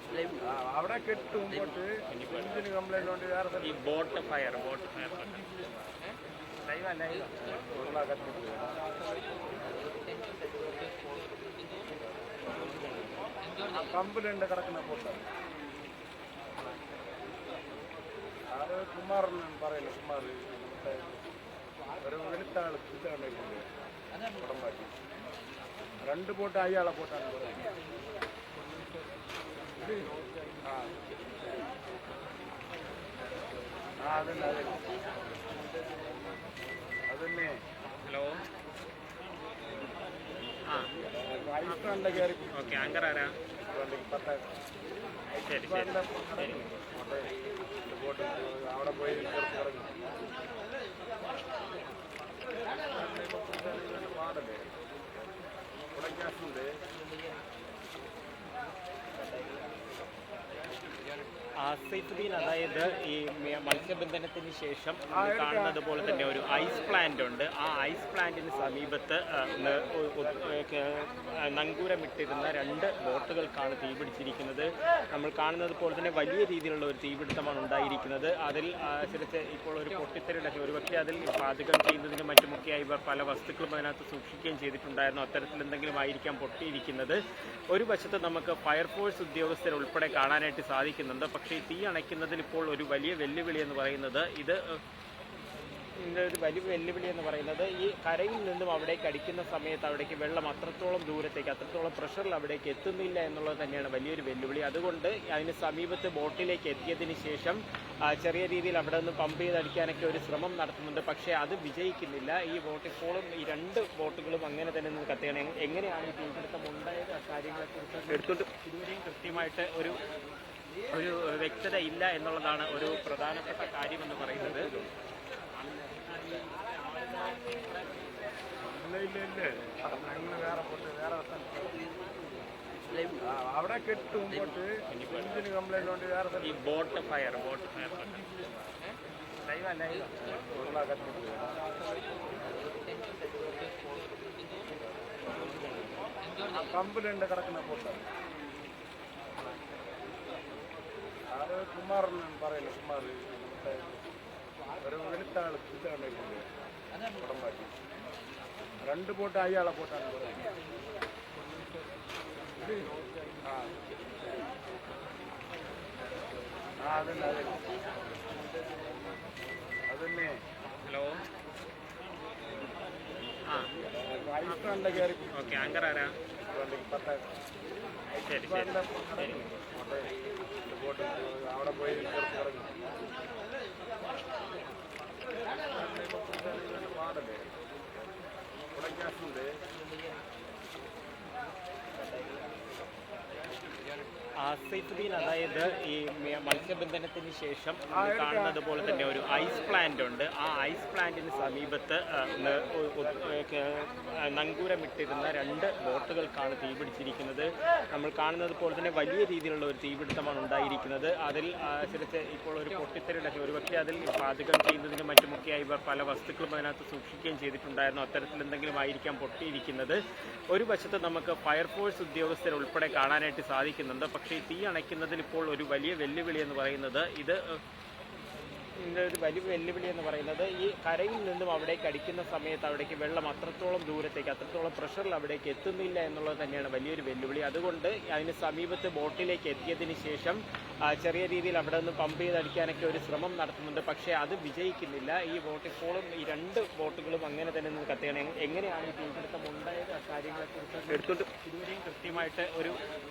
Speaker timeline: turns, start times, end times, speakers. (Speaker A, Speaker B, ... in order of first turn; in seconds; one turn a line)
Speaker A: 0.5-4.5
Speaker B: 2.1-2.6
Speaker B: 3.6-5.5
Speaker B: 6.7-7.3
Speaker A: 7.7-8.7
Speaker A: 13.7-15.2
Speaker A: 18.6-21.2
Speaker A: 22.0-23.6
Speaker A: 24.4-24.9
Speaker A: 26.1-27.6
Speaker A: 30.6-30.9
Speaker A: 34.0-34.9
Speaker A: 37.1-37.5
Speaker B: 38.0-38.3
Speaker A: 41.0-42.5
Speaker B: 41.7-43.3
Speaker A: 43.7-44.4
Speaker A: 45.4-47.3
Speaker B: 45.5-46.6
Speaker A: 47.8-50.0
Speaker A: 52.9-54.6
Speaker A: 55.9-56.7
Speaker B: 61.6-87.2
Speaker A: 65.1-66.7
Speaker A: 70.2-70.5
Speaker B: 87.7-94.6
Speaker B: 96.0-107.6
Speaker B: 108.1-119.9
Speaker B: 120.9-124.8
Speaker B: 126.1-127.8
Speaker A: 128.6-131.7
Speaker A: 133.3-137.3
Speaker B: 134.9-135.4
Speaker B: 136.4-138.2
Speaker B: 139.4-139.9
Speaker A: 139.9-141.5
Speaker A: 146.5-148.0
Speaker A: 151.3-154.0
Speaker A: 154.8-156.4
Speaker A: 157.2-157.7
Speaker A: 158.9-160.4
Speaker A: 163.4-163.7
Speaker A: 166.8-167.7
Speaker A: 169.9-170.3
Speaker B: 170.8-171.1
Speaker A: 173.8-175.3
Speaker B: 174.5-176.1
Speaker A: 176.4-177.2
Speaker A: 178.2-180.1
Speaker B: 178.2-179.4
Speaker A: 180.6-182.8
Speaker A: 185.7-187.4
Speaker A: 188.7-189.5
Speaker B: 194.4-220.0
Speaker A: 197.9-199.5
Speaker A: 203.0-203.3
Speaker B: 220.5-227.4
Speaker B: 228.8-240.4
Speaker B: 240.9-252.7